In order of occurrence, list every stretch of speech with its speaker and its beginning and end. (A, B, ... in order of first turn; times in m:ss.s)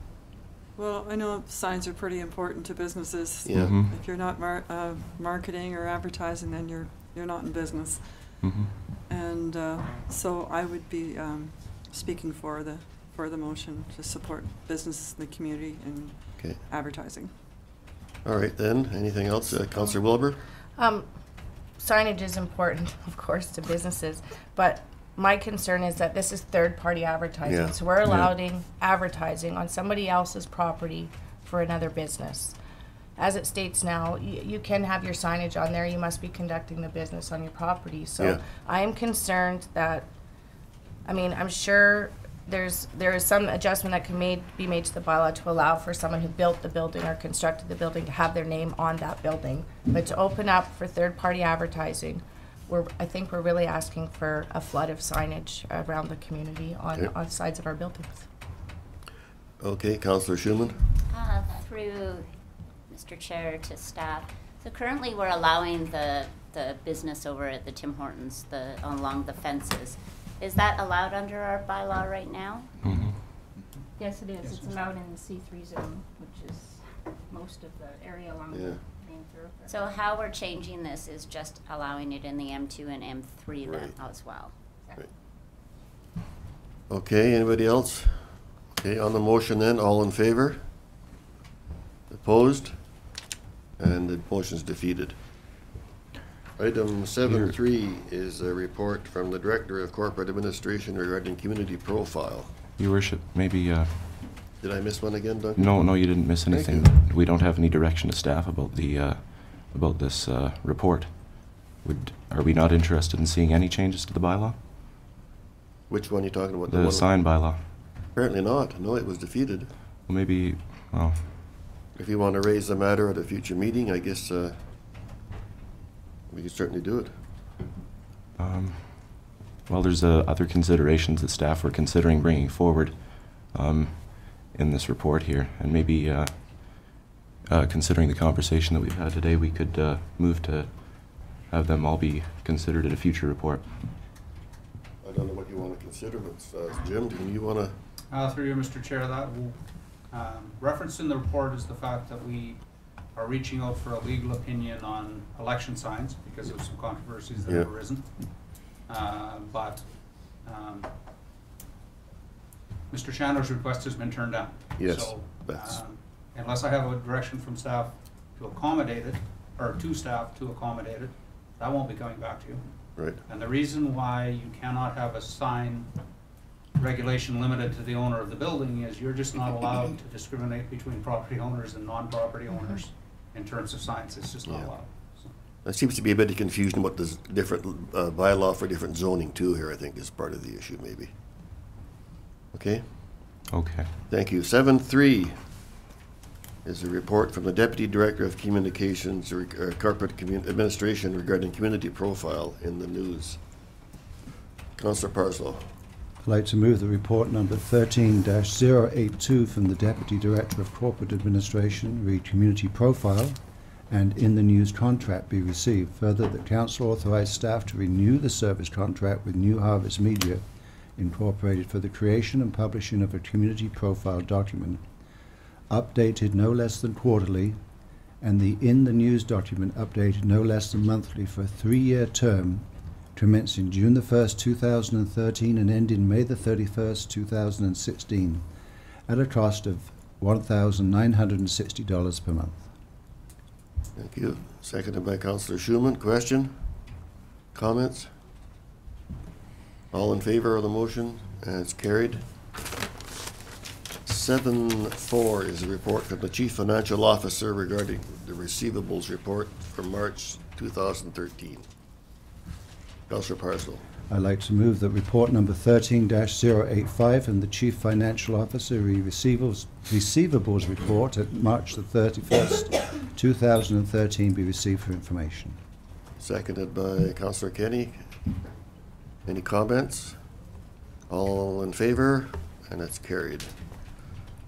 0:00.8-0:17.4 A
0:03.5-0:03.8 B
0:03.5-0:03.9 C
0:08.4-0:08.7 C
0:16.4-0:16.6 B
0:18.2-0:20.4 B
0:20.8-0:21.1 D
0:21.8-0:32.6 D
0:27.5-0:28.3 B
0:33.2-0:40.1 D
0:41.1-0:58.3 D
0:59.6-1:00.8 B
1:01.1-1:02.3 E
1:02.9-1:12.7 E
1:12.8-1:13.1 C
1:14.0-1:19.9 F
1:14.4-1:14.8 G
1:18.5-1:18.8 B
1:19.7-1:24.5 E
1:23.6-1:24.0 B
1:26.9-1:28.2 B
1:28.8-1:30.6 B
1:32.1-1:32.8 B
1:33.8-1:35.2 B
1:36.6-1:42.5 B
1:37.2-1:37.6 C
1:42.8-1:44.3 C
1:44.6-1:47.0 B
1:45.6-1:54.6 C
1:55.9-1:57.2 B
1:56.7-1:57.6 C
1:58.2-1:59.7 B
2:00.1-2:01.3 C
2:02.0-2:04.6 B
2:06.3-2:07.1 B
2:08.4-2:23.7 C
2:25.0-2:27.8 B
2:28.1-2:29.6 G
2:30.1-2:32.6 G
2:33.2-2:38.1 G
2:38.9-2:39.8 G
2:40.5-2:40.9 G
2:42.9-2:52.6 G
2:44.8-2:45.8 B
2:53.3-2:55.9 G
2:56.8-3:05.3 G
3:05.6-3:11.1 B
3:12.5-3:12.8 B
3:13.5-3:13.9 C
3:14.1-3:15.3 B
3:16.6-3:23.4 B
3:24.8-3:25.6 B
3:26.2-3:33.4 H
3:33.9-3:40.4 H
3:41.0-3:44.8 H
3:45.7-3:47.6 H
3:48.2-3:58.4 H
3:59.1-4:02.7 H
4:04.0-4:06.5 B
4:07.5-4:08.1 B
4:09.9-4:12.2 B
4:14.1-4:21.6 B
4:23.1-4:23.8 B
4:24.1-4:35.6 H
4:36.2-4:38.0 B
4:39.3-4:40.2 B
4:41.1-4:43.5 B